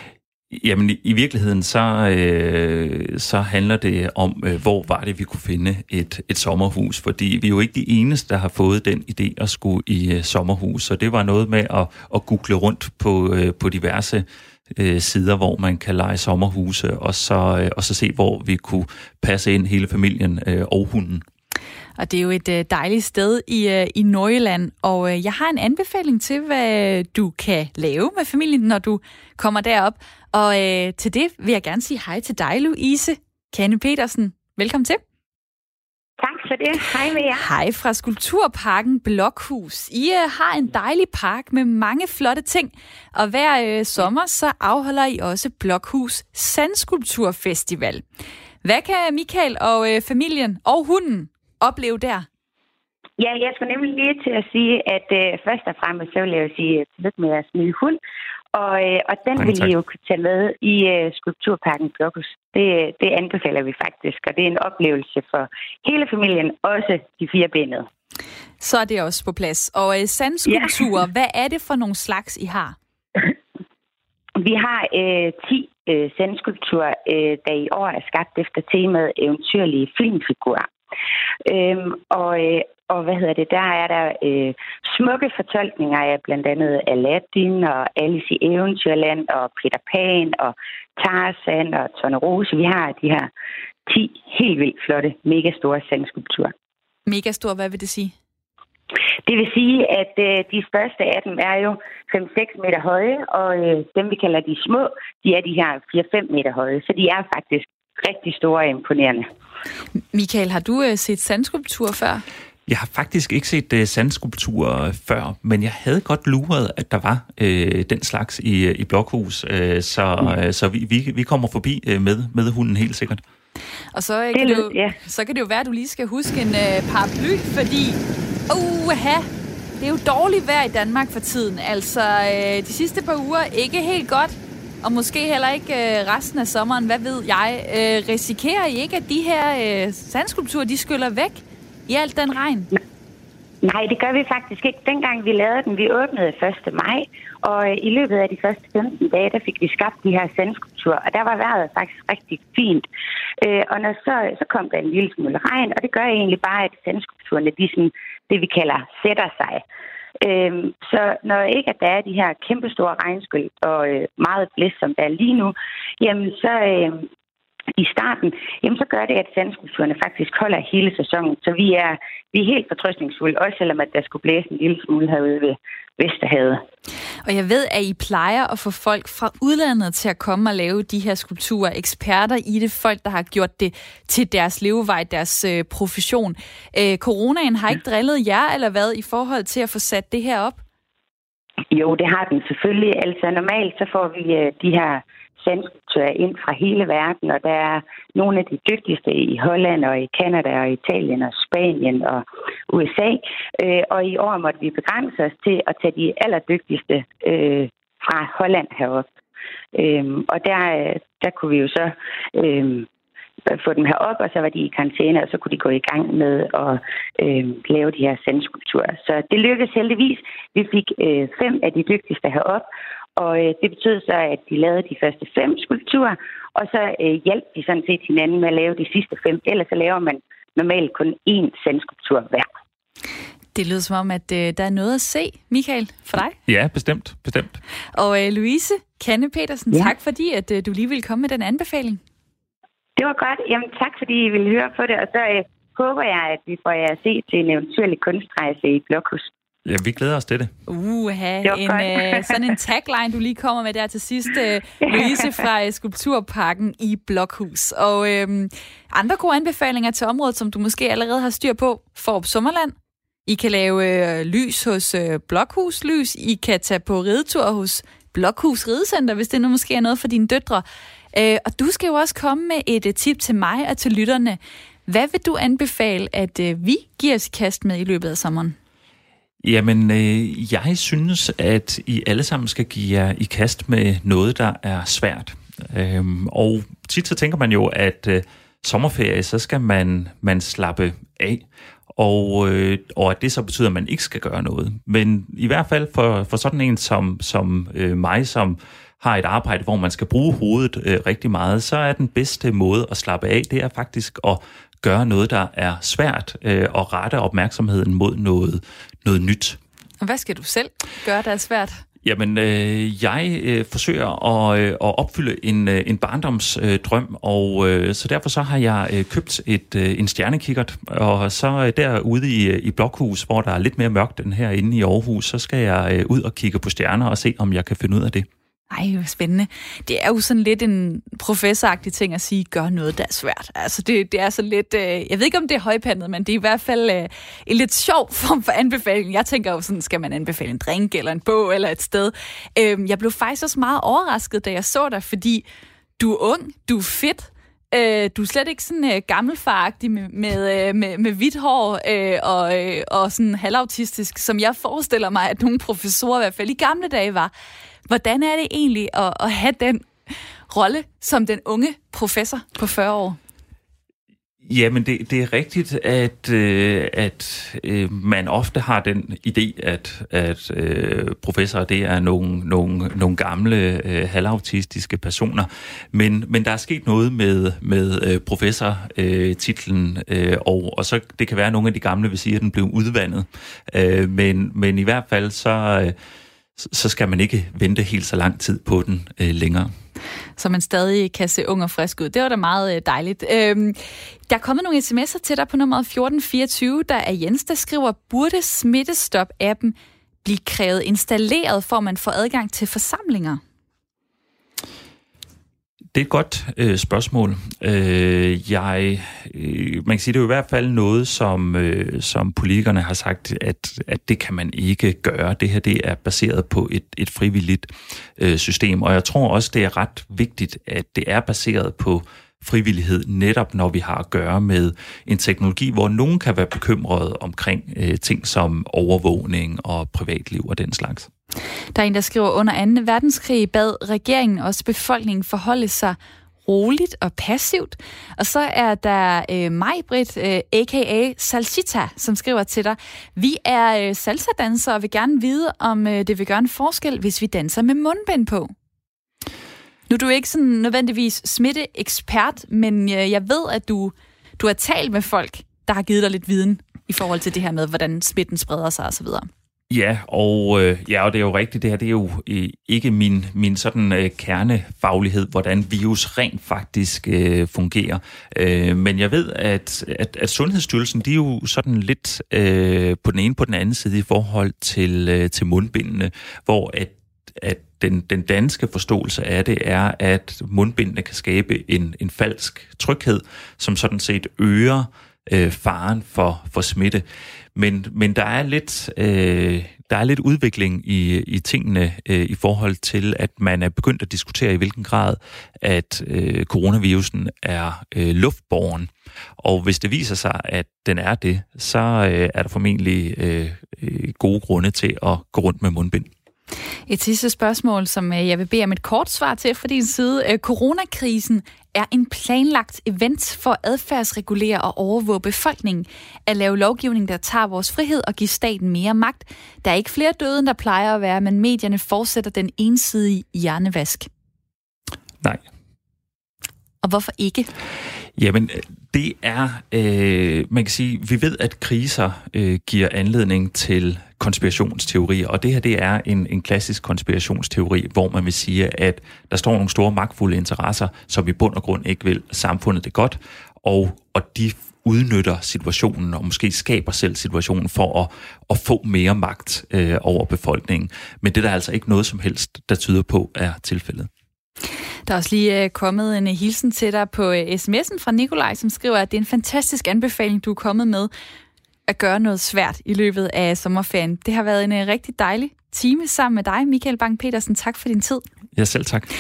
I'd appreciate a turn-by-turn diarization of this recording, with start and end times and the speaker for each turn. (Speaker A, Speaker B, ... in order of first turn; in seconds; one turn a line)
Speaker A: 0.5-21.2
Speaker B: 22.0-35.0
Speaker C: 36.2-37.5
Speaker B: 37.3-48.0
Speaker B: 48.6-52.2
Speaker C: 53.2-58.0
Speaker C: 58.5-67.9
Speaker A: 59.4-59.7
Speaker B: 68.6-72.8
Speaker C: 70.5-70.8
Speaker C: 74.4-80.7
Speaker C: 81.4-93.3
Speaker C: 93.8-96.5
Speaker B: 97.0-98.1
Speaker C: 99.2-109.3
Speaker B: 110.1-112.2
Speaker A: 112.7-123.2
Speaker B: 123.9-129.3
Speaker C: 124.3-125.0
Speaker B: 129.8-142.7
Speaker C: 143.6-152.8
Speaker C: 153.4-159.6
Speaker C: 160.2-167.1
Speaker C: 167.8-176.6
Speaker B: 177.2-190.6
Speaker C: 191.7-209.1
Speaker C: 209.7-212.9
Speaker C: 213.4-222.6
Speaker C: 223.2-232.5
Speaker B: 233.5-236.3
Speaker A: 236.4-237.6
Speaker B: 237.9-242.0
Speaker C: 243.0-249.3
Speaker A: 249.6-250.5
Speaker B: 250.7-262.7
Speaker C: 251.4-252.4
Speaker C: 254.8-255.2
Speaker B: 263.2-278.6
Speaker A: 279.4-309.6
Speaker B: 310.0-311.8
Speaker A: 312.0-328.3
Speaker B: 328.7-345.4
Speaker B: 346.0-357.3
Speaker B: 357.9-359.9
Speaker B: 360.5-363.2
Speaker A: 364.4-385.9
Speaker A: 386.6-389.7
Speaker B: 390.4-403.4
Speaker A: 405.9-431.1
Speaker B: 431.7-448.5
Speaker B: 449.9-459.3
Speaker A: 459.7-506.1
Speaker B: 506.9-524.1
Speaker B: 526.8-527.5
Speaker A: 528.2-554.1
Speaker B: 555.1-561.1
Speaker B: 561.9-568.2
Speaker A: 568.5-569.1